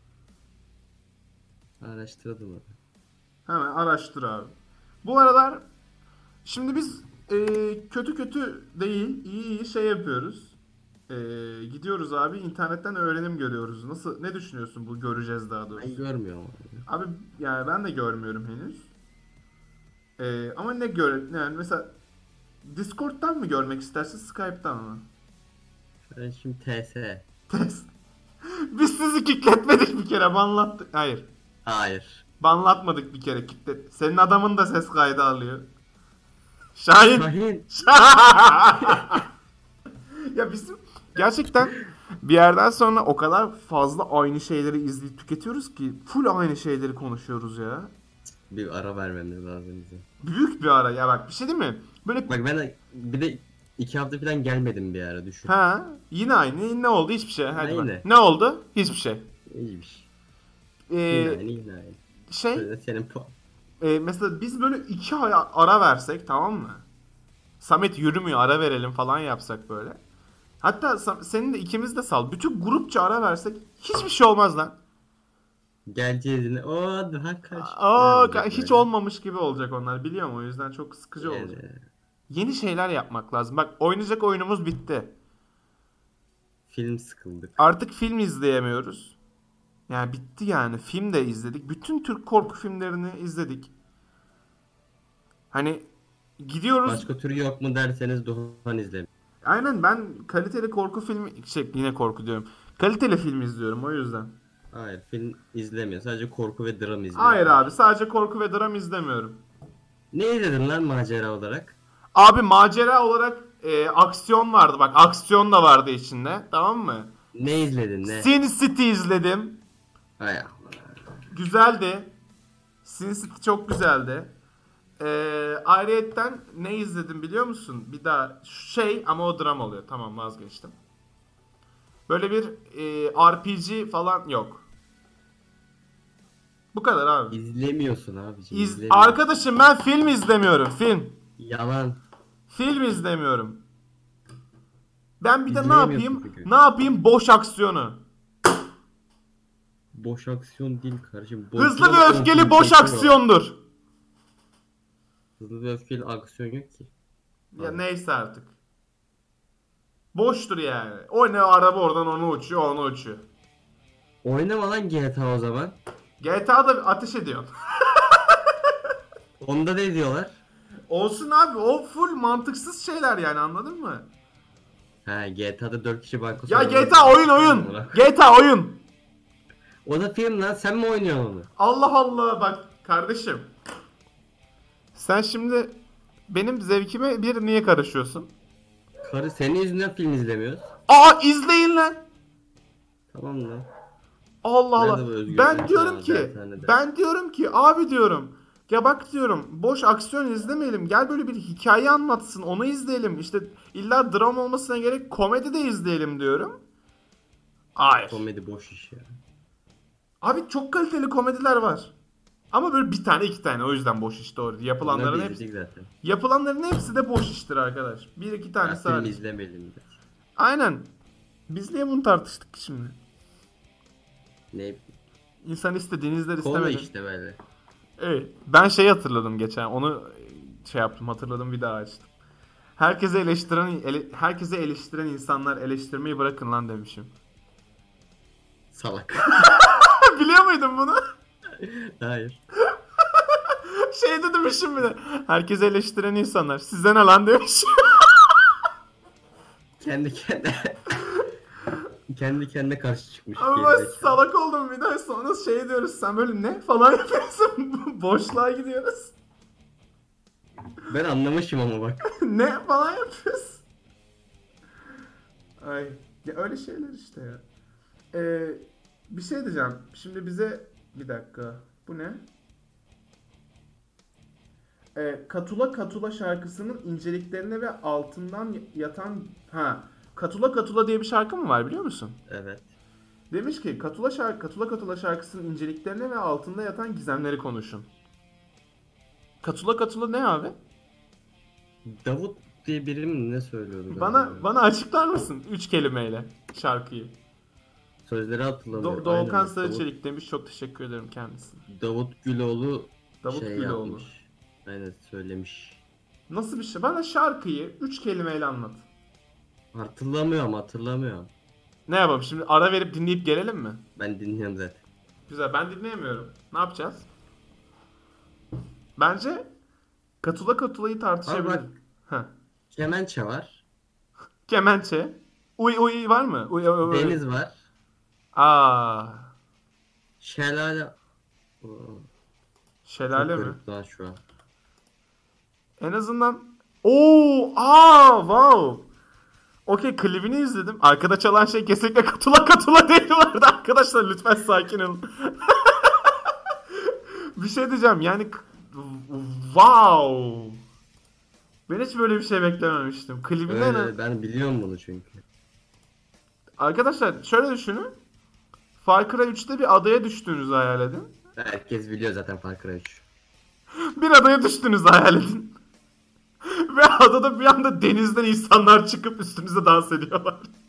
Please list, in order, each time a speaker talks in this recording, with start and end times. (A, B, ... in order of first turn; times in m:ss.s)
0:01.8-0:02.7 A
0:03.5-0:05.6 B
0:06.4-0:10.6 B
0:11.1-0:16.0 B
0:15.8-0:16.9 A
0:16.9-0:18.9 B
0:20.2-0:22.0 B
0:22.6-0:25.1 B
0:26.1-0:27.3 A
0:27.5-0:27.9 B
0:28.7-0:31.3 B
0:31.6-0:32.2 A
0:32.4-0:35.7 B
0:36.8-0:39.3 B
0:37.1-0:37.7 A
0:38.9-0:39.2 A
0:40.3-0:47.9 B
0:48.5-0:50.0 A
0:50.2-0:52.3 B
0:52.3-0:55.5 A
0:55.5-0:59.3 B
0:57.5-0:58.1 A
0:59.5-1:00.1 A
1:00.9-1:01.4 B
1:01.1-1:02.0 A
1:02.3-1:02.7 B
1:02.5-1:03.3 A
1:03.8-1:06.8 B
1:07.6-1:10.0 B
1:10.6-1:14.8 B
1:15.9-1:18.9 A
1:17.6-1:21.6 B
1:21.2-1:21.8 A
1:22.3-1:25.1 B
1:26.7-1:27.6 A
1:27.6-1:29.2 B
1:29.9-1:33.7 B
1:35.5-1:37.1 B
1:36.8-1:39.1 A
1:39.4-1:44.4 B
1:44.7-1:47.7 A
1:47.1-1:49.4 B
1:50.1-1:51.8 A
1:52.1-1:57.1 B
1:57.3-1:58.3 A
1:58.0-1:59.6 B
2:00.2-2:01.3 A
2:01.3-2:02.2 B
2:02.8-2:04.3 B
2:05.0-2:10.7 B
2:12.1-2:14.6 B
2:16.7-2:17.4 B
2:17.3-2:19.2 A
2:18.5-2:21.2 B
2:21.4-2:22.0 A
2:22.5-2:23.6 B
2:25.2-2:28.0 B
2:25.5-2:26.5 A
2:29.9-2:33.2 A
2:31.6-2:33.6 B
2:35.4-2:36.9 A
2:37.5-2:38.5 B
2:40.1-2:43.2 B
2:44.2-2:45.8 A
2:46.2-2:48.4 B
2:49.4-2:50.4 A
2:50.9-2:54.1 B
2:55.0-2:58.1 A
2:56.4-2:58.8 B
2:59.8-3:01.5 A
3:01.6-3:03.5 B
3:04.9-3:05.8 B
3:06.3-3:08.3 B
3:09.0-3:10.7 A
3:10.9-3:12.0 B
3:13.1-3:13.7 A
3:14.4-3:26.6 B
3:14.8-3:16.8 A
3:27.8-3:28.2 B
3:28.1-3:29.1 A
3:30.2-3:31.9 B
3:32.5-3:35.4 B
3:34.8-3:35.9 A
3:36.0-3:39.2 B
3:38.6-3:40.0 A
3:40.4-3:40.9 B
3:41.5-3:43.0 B
3:44.5-3:44.9 A
3:45.4-3:46.9 B
3:46.4-3:47.4 A
3:48.0-3:52.1 B
3:52.8-3:57.1 B
3:58.7-3:59.5 A
3:59.3-4:01.0 B
4:01.6-4:02.4 A
4:03.2-4:08.3 B
4:09.8-4:11.0 A
4:12.1-4:14.2 A
4:13.4-4:19.2 B
4:20.9-4:22.1 A
4:22.1-4:23.6 B
4:25.6-4:27.4 B
4:28.1-4:32.3 B
4:34.9-4:42.2 B
4:42.3-4:42.7 A
4:43.3-4:47.9 B
4:49.4-4:50.6 B
4:51.8-4:54.4 A
4:53.9-4:57.2 B
4:58.0-4:59.9 A
4:58.7-5:01.6 B
5:01.7-5:05.8 A
5:03.2-5:04.1 B
5:06.3-5:08.8 B
5:09.7-5:11.3 A
5:11.9-5:13.8 B
5:14.0-5:14.8 A
5:15.3-5:17.1 B
5:19.0-5:19.5 B
5:20.2-5:22.3 B
5:21.2-5:21.7 A
5:22.7-5:23.6 A
5:24.5-5:27.2 B
5:26.8-5:27.6 A
5:28.3-5:29.3 B
5:30.2-5:31.0 A
5:31.6-5:32.1 A
5:32.8-5:33.6 B
5:33.1-5:34.2 A
5:35.8-5:38.9 B
5:39.6-5:46.3 B
5:46.9-5:50.6 B
5:51.7-5:53.9 B
5:53.5-5:55.2 A
5:56.6-5:57.9 B
5:58.8-6:01.1 B
6:01.4-6:03.0 A
6:04.0-6:05.6 B
6:06.5-6:10.5 B